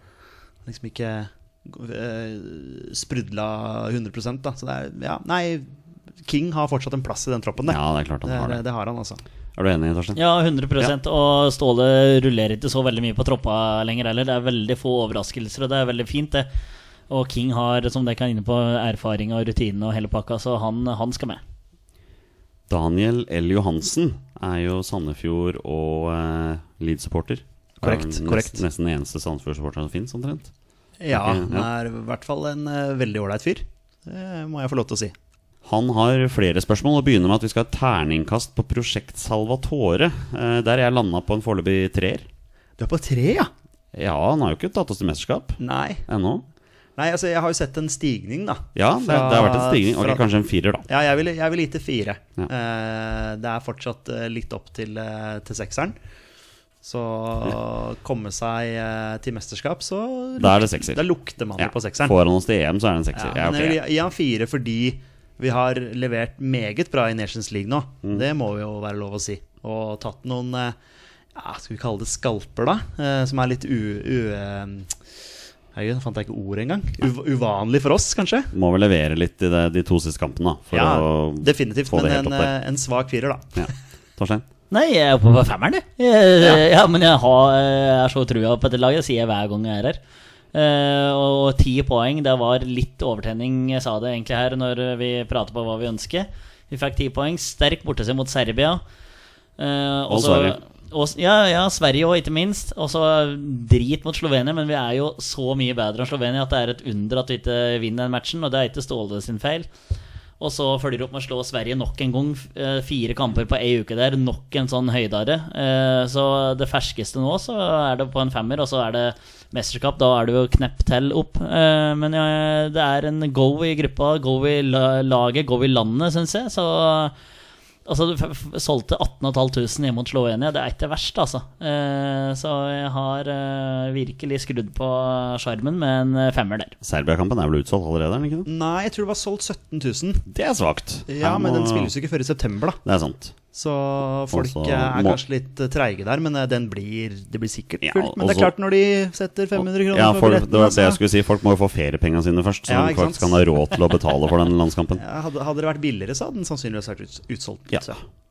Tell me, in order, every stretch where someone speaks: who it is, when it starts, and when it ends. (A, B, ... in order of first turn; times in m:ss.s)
0:00.6-0:05.7 A
0:06.2-0:09.2 A
0:07.6-0:08.6 B
0:09.6-0:10.2 B
0:10.2-0:16.5 C
0:17.1-0:21.4 C
0:22.7-0:30.5 B
0:27.8-0:28.6 A
0:31.0-0:35.1 A
0:31.1-0:31.7 B
0:35.6-0:42.3 B
0:42.8-0:43.5 A
0:43.9-0:46.4 B
0:45.6-0:46.0 A
0:47.0-0:50.2 A
0:48.8-0:50.8 B
0:50.8-0:56.0 A
0:56.8-1:02.2 A
1:00.4-1:01.0 B
1:01.6-1:03.8 B
1:03.1-1:10.8 A
1:11.3-1:15.0 A
1:15.7-1:18.5 A
1:18.5-1:22.5 B
1:20.7-1:23.7 A
1:23.6-1:24.4 B
1:24.7-1:30.0 C
1:30.5-1:38.8 C
1:39.6-1:49.7 C
1:40.1-1:40.6 B
1:50.4-2:07.1 C
2:07.8-2:16.7 C
2:16.8-2:18.5 B
2:18.4-2:20.2 A
2:20.3-2:21.9 B
2:21.1-2:22.8 A
2:22.8-2:23.3 B
2:23.5-2:31.0 A
2:24.3-2:25.2 B
2:27.8-2:28.5 B
2:29.6-2:35.0 B
2:32.7-2:33.6 A
2:35.0-2:38.0 A